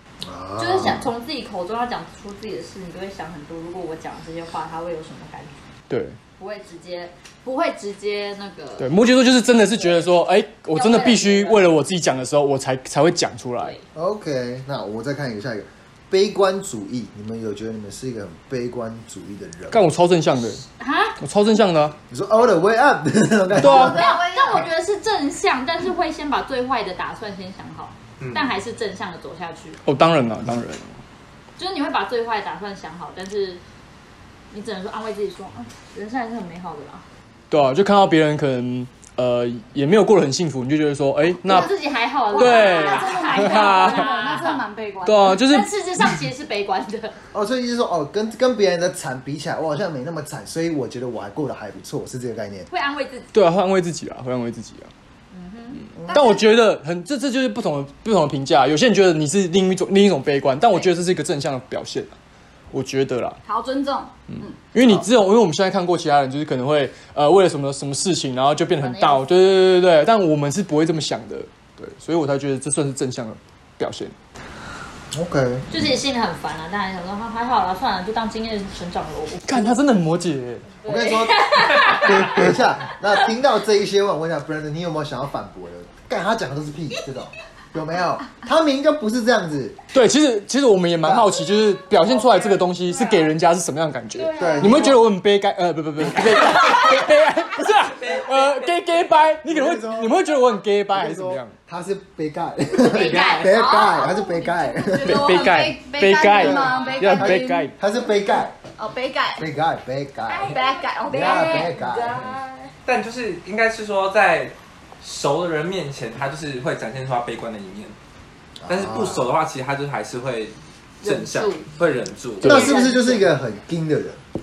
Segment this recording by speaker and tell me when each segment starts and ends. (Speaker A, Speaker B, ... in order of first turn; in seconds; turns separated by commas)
Speaker A: 0.2-1.1, Speaker B: 0.6-5.5, Speaker C: 5.9-6.2, Speaker B: 6.4-8.9, Speaker C: 8.8-13.8, Speaker B: 10.7-11.7, Speaker B: 13.6-13.8, Speaker A: 13.9-19.9, Speaker C: 19.7-20.6, Speaker B: 20.8-21.2, Speaker C: 21.2-21.9, Speaker A: 22.1-24.1, Speaker C: 23.6-24.1, Speaker B: 23.6-29.8, Speaker D: 23.7-24.7, Speaker E: 28.2-28.5, Speaker C: 29.9-31.0, Speaker B: 31.6-33.6, Speaker B: 34.5-37.0, Speaker C: 37.5-41.7, Speaker B: 41.5-44.6, Speaker C: 42.3-44.4, Speaker D: 42.3-45.4, Speaker C: 45.0-45.7, Speaker B: 45.2-47.2, Speaker A: 47.3-52.7, Speaker B: 52.7-53.3, Speaker C: 53.3-54.9, Speaker B: 55.3-55.8, Speaker C: 55.8-62.1, Speaker A: 56.0-56.4, Speaker D: 56.1-56.6, Speaker C: 62.7-63.4, Speaker D: 63.5-64.6, Speaker C: 64.3-74.1, Speaker A: 64.8-65.0, Speaker B: 68.8-69.3, Speaker A: 75.1-75.7, Speaker B: 75.7-79.8, Speaker C: 79.4-80.8, Speaker B: 80.8-82.9, Speaker A: 80.8-89.8, Speaker C: 89.9-101.6, Speaker A: 91.0-91.4, Speaker B: 91.9-93.3, Speaker B: 94.1-95.0, Speaker A: 94.4-95.0, Speaker B: 96.4-97.0, Speaker E: 98.0-98.5, Speaker A: 99.4-100.3, Speaker A: 100.9-105.5, Speaker B: 102.8-104.2, Speaker E: 102.9-103.5, Speaker D: 103.7-107.7, Speaker C: 105.0-107.8, Speaker A: 106.3-108.6, Speaker D: 108.8-109.5, Speaker A: 109.4-112.3, Speaker B: 110.3-112.7, Speaker D: 110.4-111.7, Speaker E: 112.9-118.0, Speaker A: 118.6-119.3, Speaker E: 118.7-122.7, Speaker B: 121.0-121.7, Speaker C: 122.4-122.8, Speaker A: 122.4-124.2, Speaker B: 122.5-123.1, Speaker D: 122.5-123.3